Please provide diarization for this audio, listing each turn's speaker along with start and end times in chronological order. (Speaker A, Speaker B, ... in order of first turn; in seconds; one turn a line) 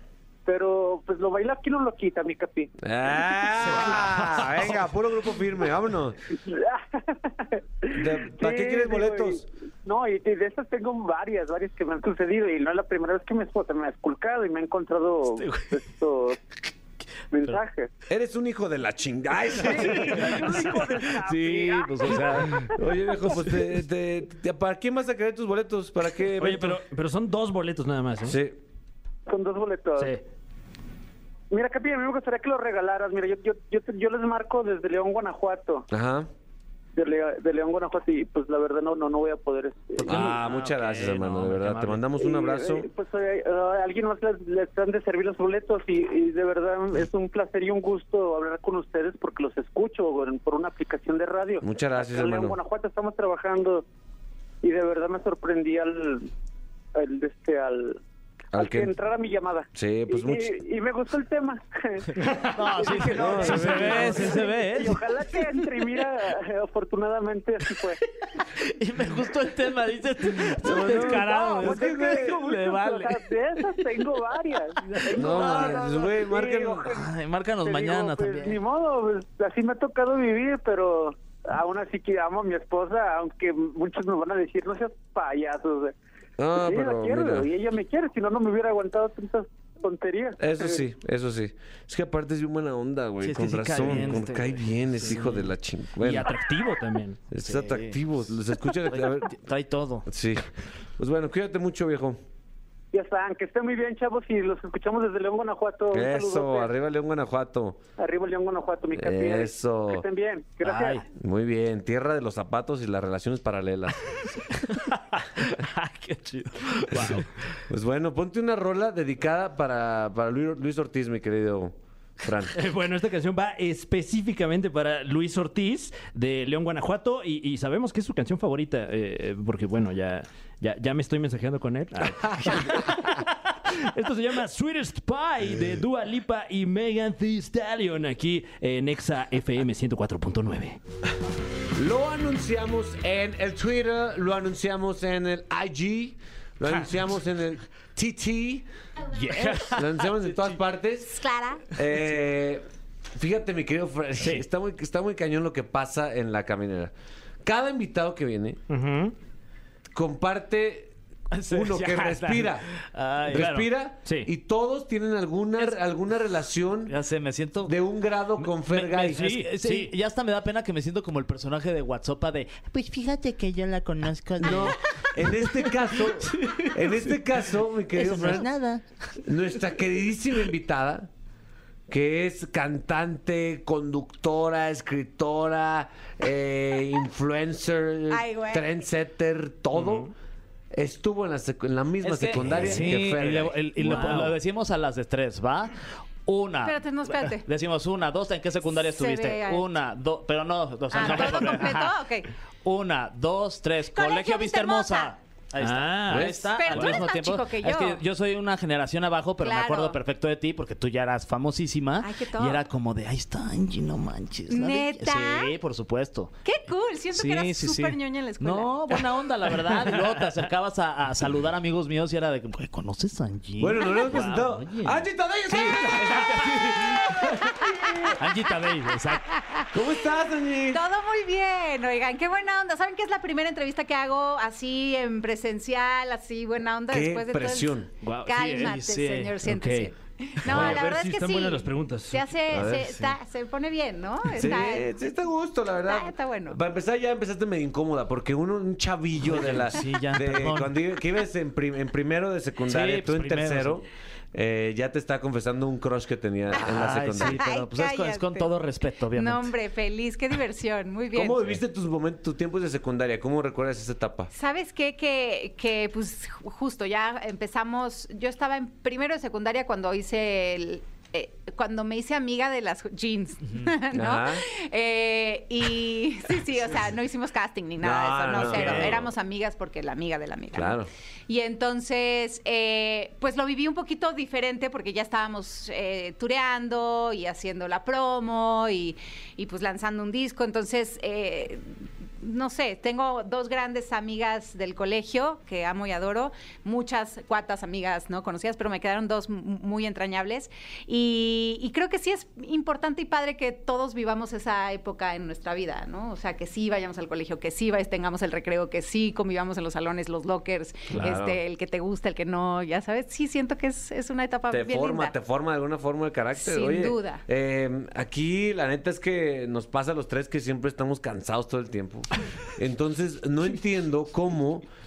Speaker A: 0.5-2.7
Speaker B: 2.8-6.2
Speaker A: 6.4-16.4
Speaker B: 7.9-9.4
Speaker C: 15.3-15.8
Speaker A: 17.3-17.9
Speaker B: 18.1-20.7
Speaker A: 19.6-22.8
Speaker C: 19.8-22.8
Speaker B: 22.7-26.8
Speaker D: 26.4-28.4
Speaker B: 28.2-28.6
Speaker A: 29.3-30.1
Speaker D: 30.0-30.2
Speaker A: 31.5-35.9
Speaker B: 35.9-36.3
Speaker A: 37.0-40.3
Speaker C: 40.0-42.0
Speaker B: 40.0-42.9
Speaker D: 41.0-41.5
Speaker A: 42.2-53.8
Speaker B: 51.6-52.6
Speaker A: 54.6-56.3
Speaker A: 56.9-58.0
Speaker B: 58.5-58.9
Speaker A: 58.5-68.0
Speaker B: 59.7-60.5
Speaker C: 62.5-65.4
Speaker B: 63.0-64.4
Speaker C: 68.3-73.8
Speaker B: 70.6-72.4
Speaker A: 70.7-77.1
Speaker C: 74.8-76.0
Speaker B: 75.1-76.9
Speaker C: 76.9-78.6
Speaker A: 77.6-85.9
Speaker B: 86.4-87.5
Speaker A: 86.6-90.8
Speaker B: 90.4-96.3
Speaker C: 93.2-94.6
Speaker D: 95.0-95.5
Speaker D: 96.0-97.2
Speaker B: 97.3-99.3
Speaker C: 97.4-98.0
Speaker C: 99.0-100.1
Speaker B: 100.1-102.2
Speaker A: 102.9-106.7
Speaker B: 105.9-107.8
Speaker A: 108.0-111.0
Speaker B: 108.9-110.0
Speaker C: 110.6-111.0
Speaker B: 111.1-114.2
Speaker C: 114.7-117.3
Speaker D: 116.9-117.3
Speaker B: 117.7-122.5
Speaker D: 122.5-140.8
Speaker B: 132.3-132.6
Speaker B: 141.8-148.6
Speaker D: 149.1-149.7
Speaker C: 149.3-150.5
Speaker B: 149.7-152.6
Speaker E: 151.1-151.6
Speaker B: 153.1-158.6
Speaker D: 154.2-154.4
Speaker D: 158.7-159.1
Speaker B: 159.9-160.9
Speaker C: 161.3-163.5
Speaker B: 161.5-162.7
Speaker B: 163.2-166.9
Speaker D: 163.3-164.3
Speaker C: 166.9-167.7
Speaker B: 167.6-169.2
Speaker C: 168.7-177.2
Speaker D: 169.1-169.9
Speaker B: 174.4-178.5
Speaker C: 177.9-179.2
Speaker B: 179.2-181.1
Speaker B: 181.9-190.1
Speaker E: 188.1-188.7
Speaker D: 189.7-190.1
Speaker B: 190.7-194.2
Speaker C: 192.0-202.0
Speaker D: 193.8-194.4
Speaker E: 196.6-197.4
Speaker E: 198.6-199.7
Speaker E: 200.9-202.3
Speaker C: 202.6-216.3
Speaker E: 203.9-205.1
Speaker D: 205.6-207.0
Speaker B: 206.1-206.4
Speaker E: 206.4-208.0
Speaker E: 209.4-210.0
Speaker E: 212.0-212.6
Speaker E: 214.5-215.5
Speaker E: 216.4-219.2
Speaker C: 217.1-224.8
Speaker B: 223.6-228.1
Speaker D: 224.1-224.9
Speaker C: 225.5-226.8
Speaker C: 228.2-229.3
Speaker E: 229.4-229.7
Speaker B: 229.7-230.8
Speaker E: 230.7-244.9
Speaker B: 236.9-237.9
Speaker D: 238.0-238.8
Speaker C: 238.5-239.3
Speaker D: 239.4-242.9
Speaker B: 240.5-240.8
Speaker B: 242.5-243.1
Speaker B: 244.3-257.5
Speaker E: 245.8-246.6
Speaker C: 249.2-250.8
Speaker C: 252.7-253.8
Speaker C: 256.5-259.5
Speaker E: 257.2-258.5
Speaker E: 259.1-261.5
Speaker B: 261.1-264.3
Speaker E: 264.3-291.6
Speaker B: 273.9-274.4
Speaker B: 277.8-279.1
Speaker C: 278.3-279.0
Speaker B: 280.5-280.9
Speaker E: 292.2-315.1
Speaker B: 310.9-311.4
Speaker B: 314.5-324.6
Speaker E: 316.4-317.2